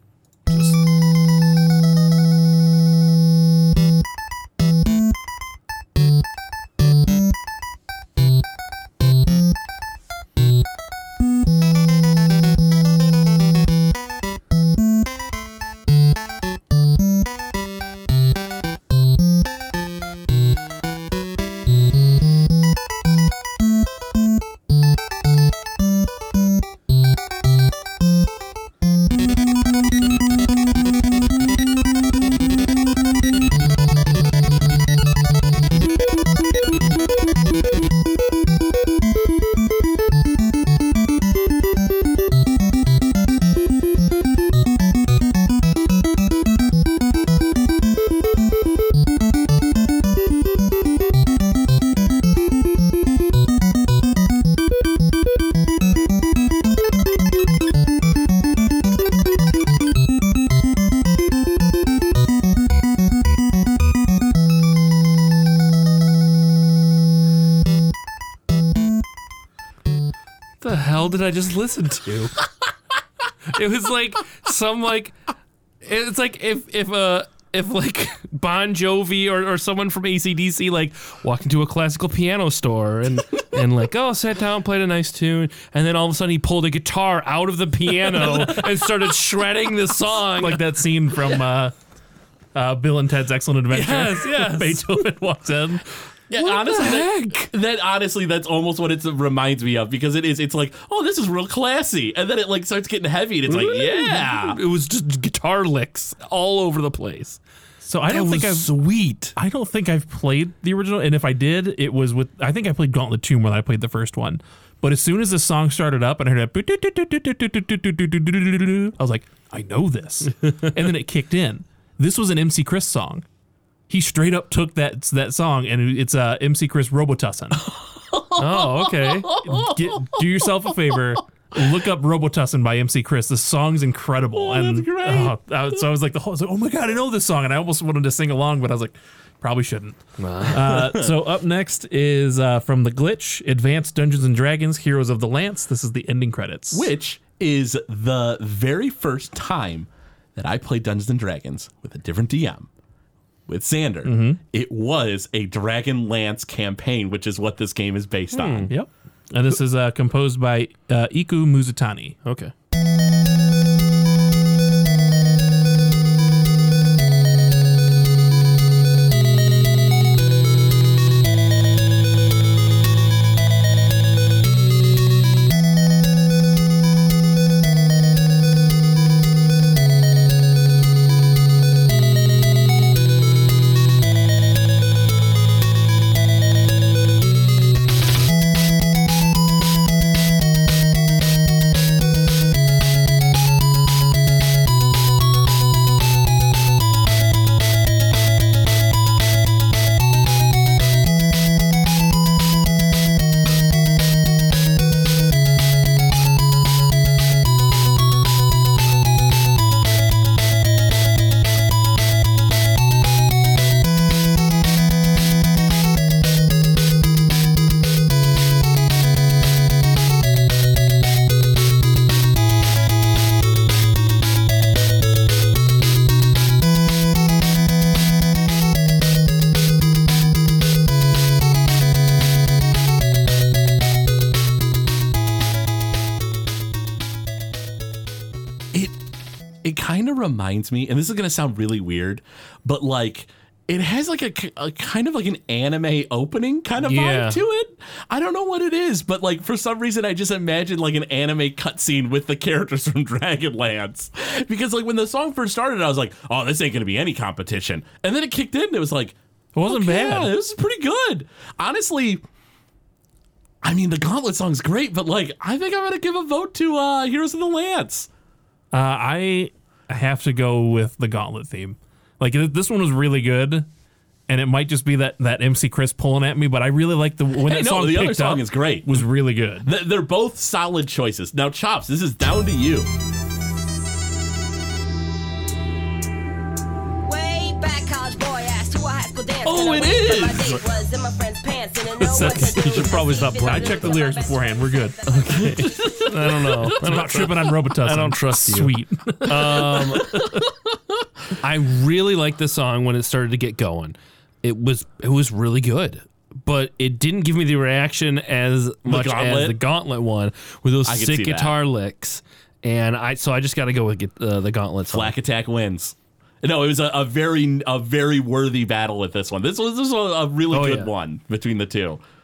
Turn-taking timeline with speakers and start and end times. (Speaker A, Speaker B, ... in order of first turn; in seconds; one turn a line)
Speaker A: 70.6-72.3
Speaker A: 73.5-75.2
Speaker A: 75.8-90.6
Speaker B: 90.4-91.7
Speaker B: 92.5-95.8
Speaker A: 93.7-95.0
Speaker C: 96.3-104.6
Speaker A: 96.3-97.5
Speaker A: 103.5-107.4
Speaker B: 107.8-108.7
Speaker A: 108.1-109.3
Speaker B: 109.3-123.2
Speaker B: 123.9-127.6
Speaker C: 127.7-130.9
Speaker A: 128.4-129.3
Speaker B: 129.4-146.9
Speaker C: 134.3-135.3
Speaker A: 140.2-140.8
Speaker C: 140.6-141.1
Speaker C: 146.7-152.7
Speaker C: 153.5-158.7
Speaker B: 154.0-154.4
Speaker A: 158.3-158.7
Speaker B: 158.7-162.2
Speaker A: 162.2-162.5
Speaker C: 238.7-239.0
Speaker C: 239.6-262.2
Speaker A: 246.8-247.4
Speaker B: 259.5-260.3
Speaker C: 263.6-268.1
Speaker B: 268.7-273.7
Speaker B: 274.3-279.7
Speaker C: 277.4-279.1
Speaker C: 279.6-282.9
Speaker D: 287.0-296.1
Speaker C: 289.4-290.6
Speaker A: 292.0-294.0
Speaker B: 292.0-295.7
Speaker A: 295.1-300.2
Speaker C: 295.4-296.7
Speaker B: 296.4-300.4
Speaker A: 301.4-315.1
Speaker C: 308.9-309.6
Speaker C: 310.8-311.6
Speaker C: 314.9-322.0
Speaker A: 320.5-320.9